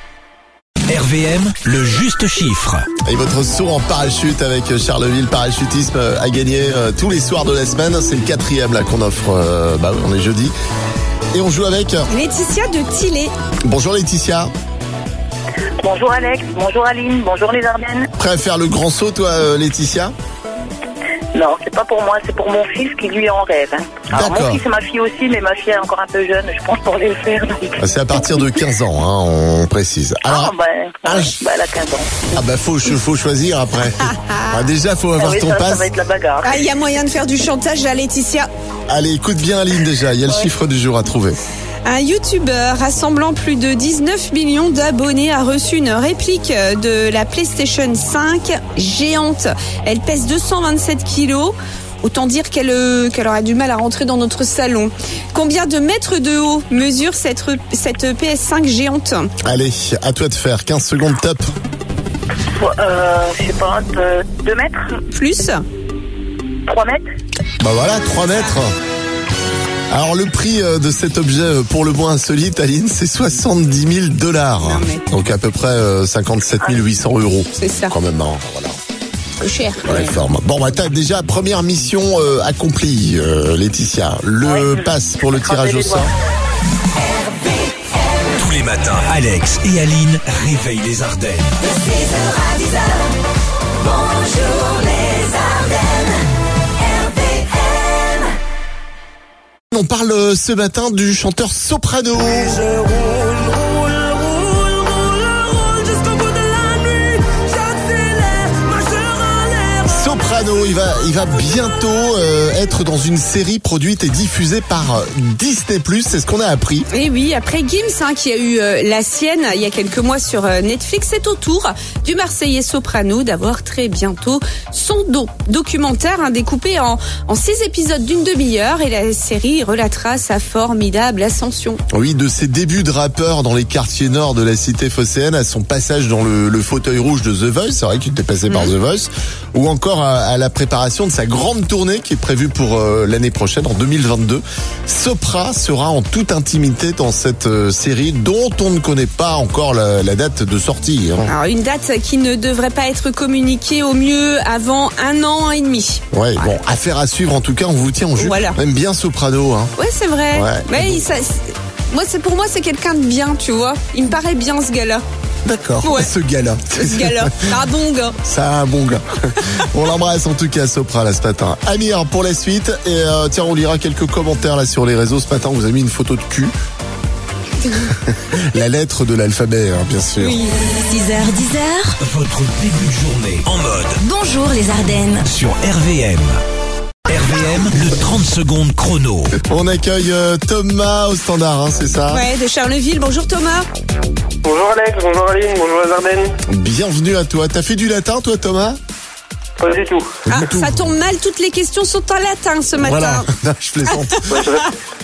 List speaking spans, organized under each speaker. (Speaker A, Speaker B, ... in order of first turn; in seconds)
Speaker A: 0.9-2.9, 88.3-91.6, 182.0-184.0, 185.2-186.4, 187.1-189.3
Speaker B: 3.1-10.5, 11.3-12.1, 13.7-14.5, 18.2-20.1, 24.1-24.6, 27.8-30.5, 31.0-31.4, 32.3-35.9, 38.9-41.4, 59.4-61.4, 67.6-68.7, 69.9-78.8, 79.8-86.1, 99.7-102.6, 109.8-116.9, 131.9-151.3, 156.1-159.7, 160.3-161.0, 165.4-167.5, 168.2-176.5, 177.9-180.4, 189.5-192.2, 196.5-198.8, 200.2-200.8, 202.8-204.3
Speaker C: 12.1-13.3, 36.4-38.5, 41.8-59.3, 65.1-65.6, 74.6-75.0, 77.6-77.9, 79.4-80.2, 116.9-131.8, 138.5-138.7, 151.3-156.5, 158.2-158.6, 159.8-165.0, 165.8-166.1, 166.7-168.2, 180.2-180.6, 192.1-193.6, 200.3-203.3
Speaker D: 15.8-18.1, 21.3-27.8, 30.2-32.1, 35.2-36.6, 62.5-65.0, 66.7-67.0, 85.3-86.0
Speaker E: 180.9-182.0, 184.0-185.3
Speaker F: 194.4-196.3, 199.6-200.2, 204.3-204.7